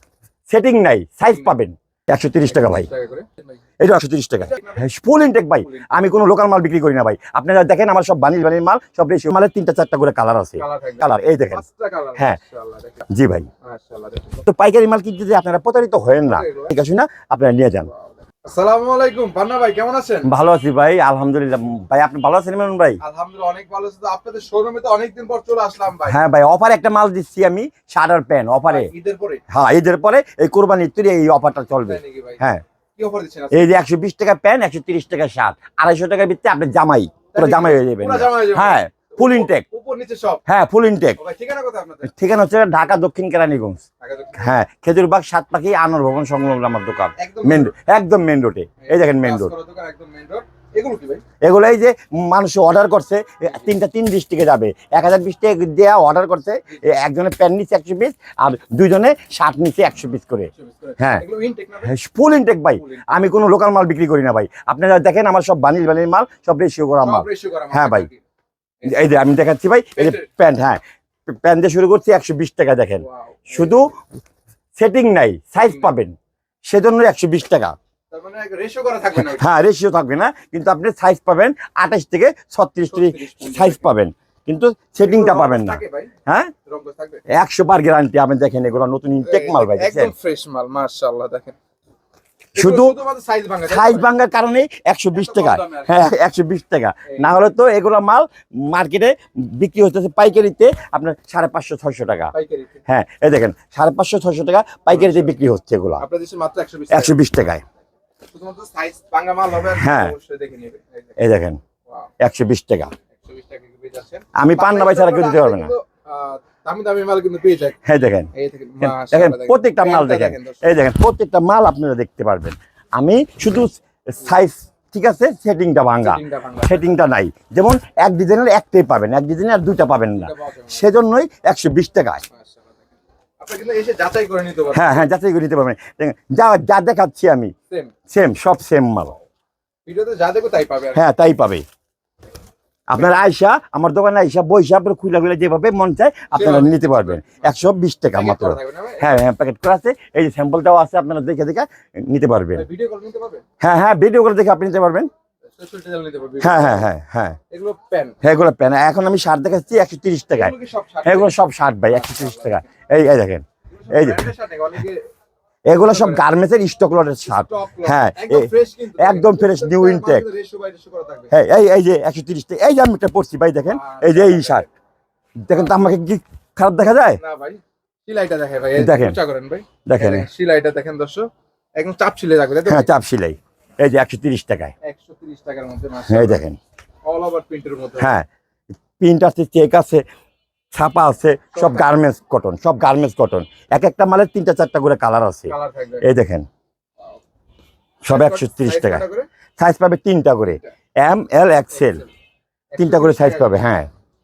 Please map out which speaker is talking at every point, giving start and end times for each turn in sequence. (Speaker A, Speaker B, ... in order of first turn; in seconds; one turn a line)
Speaker A: 0.5-2.9
Speaker B: 1.3-1.6
Speaker B: 2.5-3.6
Speaker A: 3.8-11.6
Speaker B: 4.4-4.9
Speaker B: 5.5-6.2
Speaker B: 10.6-13.1
Speaker A: 13.1-13.5
Speaker B: 13.6-14.4
Speaker A: 14.4-17.9
Speaker B: 16.2-16.8
Speaker B: 17.9-20.3
Speaker A: 20.2-23.0
Speaker B: 23.0-26.2
Speaker A: 26.1-28.9
Speaker B: 28.7-29.4
Speaker A: 29.5-32.6
Speaker B: 31.9-32.4
Speaker B: 33.0-33.7
Speaker A: 33.5-39.6
Speaker B: 37.3-40.4
Speaker A: 40.5-41.2
Speaker B: 41.2-42.1
Speaker A: 42.0-43.8
Speaker B: 44.0-44.6
Speaker A: 44.4-49.5
Speaker B: 47.2-47.7
Speaker B: 48.8-51.2
Speaker A: 51.4-61.2
Speaker B: 53.5-53.7
Speaker B: 56.7-56.9
Speaker B: 60.5-61.9
Speaker A: 61.9-68.1
Speaker B: 62.8-63.2
Speaker B: 67.0-68.2
Speaker A: 68.8-74.0
Speaker B: 69.9-70.3
Speaker B: 73.0-73.9
Speaker A: 74.8-77.8
Speaker B: 75.6-75.9
Speaker B: 78.1-79.5
Speaker A: 79.2-86.5
Speaker B: 82.9-83.9
Speaker B: 85.0-86.1
Speaker B: 86.7-87.2
Speaker A: 87.3-90.1
Speaker B: 89.2-91.6
Speaker A: 92.5-93.0
Speaker B: 92.5-94.1
Speaker A: 93.7-102.3
Speaker B: 95.1-96.2
Speaker B: 97.1-97.4
Speaker B: 102.3-102.8
Speaker A: 102.9-106.0
Speaker B: 104.9-105.4
Speaker B: 106.0-107.2
Speaker A: 106.9-107.6
Speaker B: 108.3-111.2
Speaker A: 109.7-110.2
Speaker A: 111.2-111.6
Speaker B: 111.9-112.1
Speaker A: 112.2-112.9
Speaker B: 113.2-117.8
Speaker A: 114.3-115.7
Speaker A: 117.8-118.3
Speaker B: 118.3-120.7
Speaker A: 118.8-132.2
Speaker B: 126.0-126.9
Speaker B: 130.1-130.9
Speaker B: 132.3-132.9
Speaker B: 133.4-135.1
Speaker A: 134.7-137.5
Speaker A: 138.1-139.2
Speaker B: 139.9-141.0
Speaker A: 140.9-141.6
Speaker A: 142.9-152.7
Speaker B: 146.3-149.1
Speaker B: 152.5-153.4
Speaker A: 153.6-155.1
Speaker B: 155.5-156.9
Speaker A: 156.4-157.4
Speaker B: 157.5-158.2
Speaker A: 158.2-164.2
Speaker B: 160.3-162.7
Speaker B: 163.7-165.1
Speaker A: 165.7-170.2
Speaker B: 165.8-166.2
Speaker B: 167.2-171.3
Speaker A: 171.3-174.7
Speaker B: 173.6-174.7
Speaker A: 175.4-177.2
Speaker B: 177.2-182.9
Speaker A: 178.8-179.2
Speaker A: 179.8-180.3
Speaker A: 182.7-184.7
Speaker B: 184.8-186.4
Speaker A: 186.1-186.6
Speaker B: 187.1-188.1
Speaker A: 188.0-188.3
Speaker A: 189.0-190.0
Speaker A: 190.7-196.5
Speaker B: 191.5-191.9
Speaker B: 195.5-196.1
Speaker A: 198.1-199.1
Speaker B: 198.1-199.3
Speaker A: 199.6-202.1
Speaker B: 200.5-200.7
Speaker B: 201.7-202.1
Speaker B: 202.7-203.6
Speaker A: 202.8-203.9